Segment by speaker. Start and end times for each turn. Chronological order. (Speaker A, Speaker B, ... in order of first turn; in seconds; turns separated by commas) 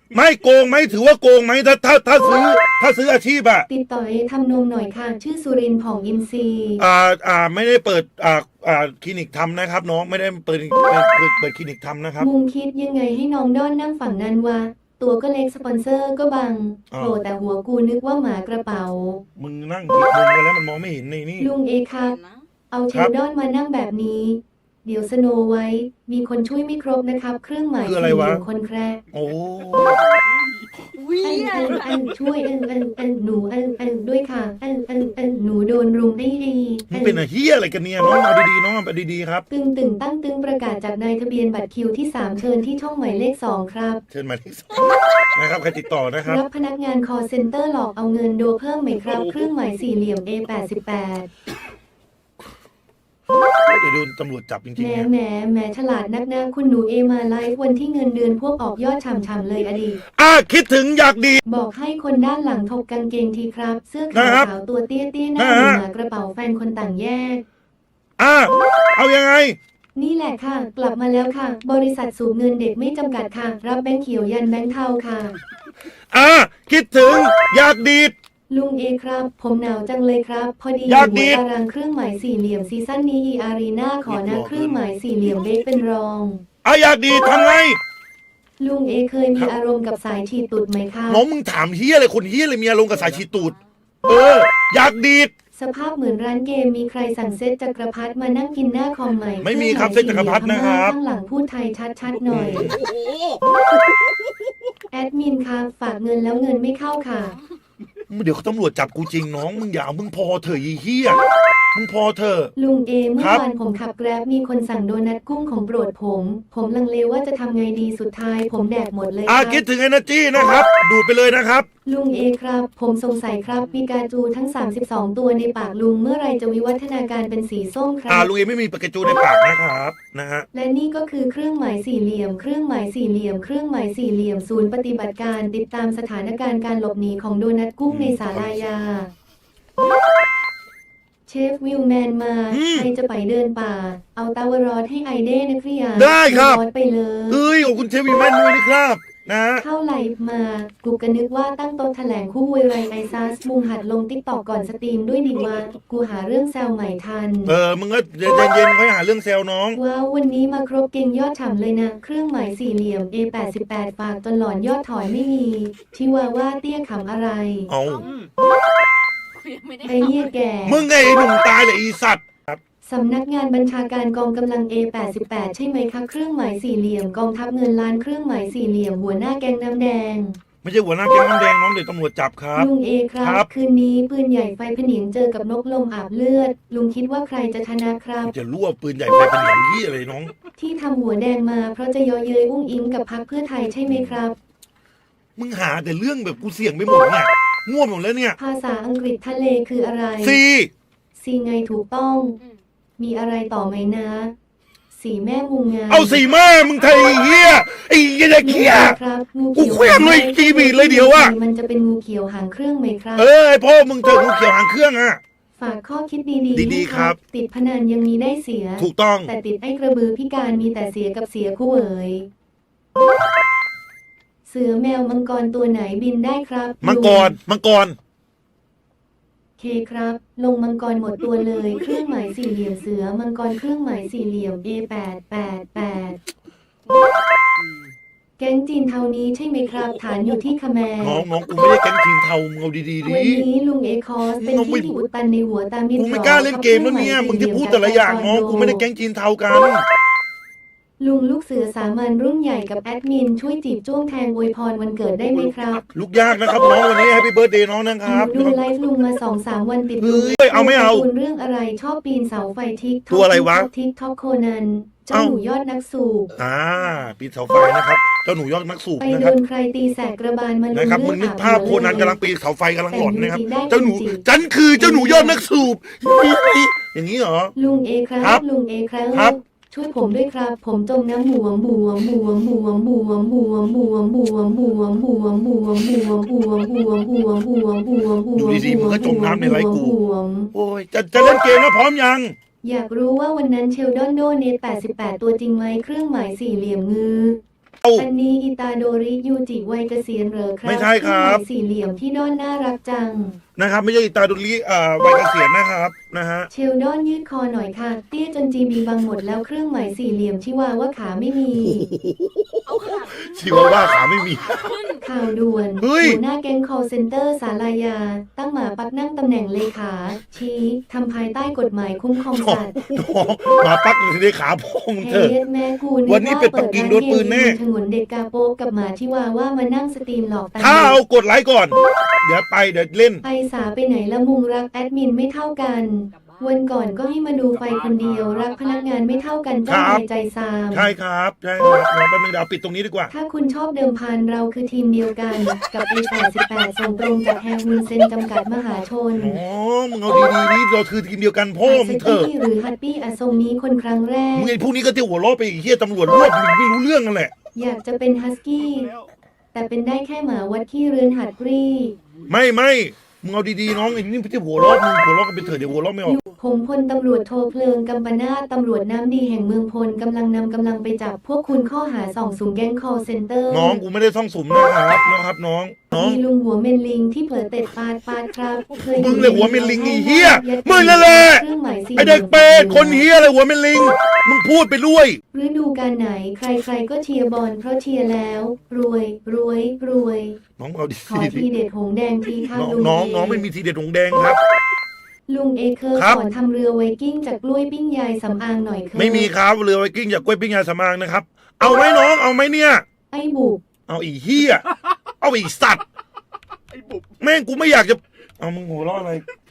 Speaker A: 0.1-3.7, Speaker B: 3.7-6.8, Speaker A: 6.8-12.3, Speaker B: 12.2-19.2, Speaker A: 16.9-17.2, Speaker A: 19.4-21.5, Speaker B: 21.4-22.2, Speaker C: 21.9-22.5, Speaker B: 22.7-29.0, Speaker A: 27.8-28.4, Speaker A: 29.1-30.0, Speaker D: 29.1-32.1, Speaker C: 30.9-32.0, Speaker B: 31.2-37.2, Speaker A: 36.9-39.4, Speaker B: 39.5-44.0, Speaker A: 44.1-46.4, Speaker B: 46.2-51.3, Speaker A: 53.6-55.1, Speaker B: 54.8-60.0, Speaker A: 60.1-61.4, Speaker B: 61.4-67.4, Speaker A: 64.1-64.5, Speaker A: 65.3-65.8, Speaker A: 68.2-69.6, Speaker B: 70.0-75.3, Speaker A: 76.1-78.1, Speaker B: 78.5-86.4, Speaker A: 80.8-81.4, Speaker A: 84.0-84.8, Speaker A: 86.6-87.8, Speaker B: 88.6-91.2, Speaker A: 91.1-93.5, Speaker D: 93.0-93.2, Speaker A: 94.1-95.3, Speaker B: 95.5-102.7, Speaker A: 99.4-101.0, Speaker A: 102.3-102.8, Speaker D: 102.5-104.5, Speaker B: 104.9-107.4, Speaker A: 108.1-111.2, Speaker A: 111.7-112.5, Speaker B: 112.5-119.6, Speaker A: 113.2-113.4, Speaker A: 119.2-121.7, Speaker B: 121.8-128.3, Speaker A: 128.1-130.5, Speaker B: 130.5-139.1, Speaker A: 137.9-138.6, Speaker B: 141.3-147.4, Speaker A: 142.5-142.9, Speaker A: 145.9-146.6, Speaker A: 147.3-149.6, Speaker B: 149.6-157.6, Speaker A: 157.4-159.8, Speaker B: 159.7-167.7, Speaker A: 167.7-168.0, Speaker C: 167.8-168.3, Speaker C: 169.3-170.4, Speaker B: 169.8-170.8, Speaker A: 170.6-172.6, Speaker B: 172.8-180.4, Speaker A: 180.6-183.5, Speaker B: 182.5-188.3, Speaker A: 188.2-190.3, Speaker B: 190.6-194.4, Speaker A: 193.9-194.2, Speaker A: 195.4-198.4, Speaker B: 198.4-200.4, Speaker A: 200.2-200.7, Speaker B: 201.2-202.4, Speaker B: 203.0-204.3, Speaker B: 204.9-206.2, Speaker A: 205.9-209.0, Speaker B: 208.4-213.3, Speaker A: 209.5-211.3, Speaker A: 213.2-215.2, Speaker B: 215.6-222.3, Speaker A: 216.5-217.2, Speaker A: 218.8-219.3, Speaker B: 224.4-227.4, Speaker A: 226.8-227.9, Speaker B: 229.6-236.2, Speaker D: 236.9-237.9, Speaker B: 238.4-241.2, Speaker D: 239.7-240.4, Speaker A: 241.0-243.4, Speaker B: 243.0-248.8, Speaker A: 244.4-244.9, Speaker A: 245.9-249.8, Speaker B: 251.0-255.8, Speaker D: 255.3-255.7, Speaker A: 255.9-258.6, Speaker B: 258.0-266.3, Speaker A: 260.0-261.1, Speaker A: 263.1-263.7, Speaker A: 265.1-265.4, Speaker A: 266.3-269.4, Speaker B: 269.0-272.2, Speaker A: 270.7-277.5, Speaker B: 272.9-274.2, Speaker B: 274.8-275.4, Speaker B: 277.6-290.5, Speaker A: 288.3-289.9, Speaker A: 290.5-292.3, Speaker B: 292.6-297.4, Speaker B: 297.9-303.4, Speaker A: 300.6-301.4, Speaker A: 303.6-306.5, Speaker B: 306.5-311.9, Speaker A: 311.5-314.8, Speaker C: 312.6-315.0, Speaker B: 315.0-322.8, Speaker A: 315.8-316.2, Speaker A: 322.3-325.4, Speaker B: 325.0-331.0, Speaker A: 326.1-327.6, Speaker A: 330.6-333.2, Speaker B: 333.2-340.9, Speaker C: 336.1-336.5, Speaker D: 337.5-338.4, Speaker C: 337.7-339.3, Speaker A: 339.7-340.0, Speaker A: 340.7-343.1, Speaker B: 343.1-349.4, Speaker A: 349.1-352.3, Speaker B: 351.6-354.6, Speaker A: 354.3-357.3, Speaker B: 357.5-358.9, Speaker D: 358.6-359.1, Speaker B: 359.5-362.0, Speaker A: 362.3-366.2, Speaker B: 366.0-373.8, Speaker A: 373.5-376.2, Speaker B: 375.9-383.0, Speaker A: 378.9-385.2, Speaker B: 385.3-390.4, Speaker A: 390.6-391.5, Speaker B: 391.1-393.4, Speaker A: 392.5-394.4, Speaker B: 395.3-399.3, Speaker A: 395.9-396.2, Speaker A: 398.9-402.8, Speaker B: 403.1-403.6, Speaker A: 403.9-404.6, Speaker D: 404.4-405.1, Speaker A: 405.2-405.8, Speaker D: 406.7-407.2, Speaker A: 407.2-409.2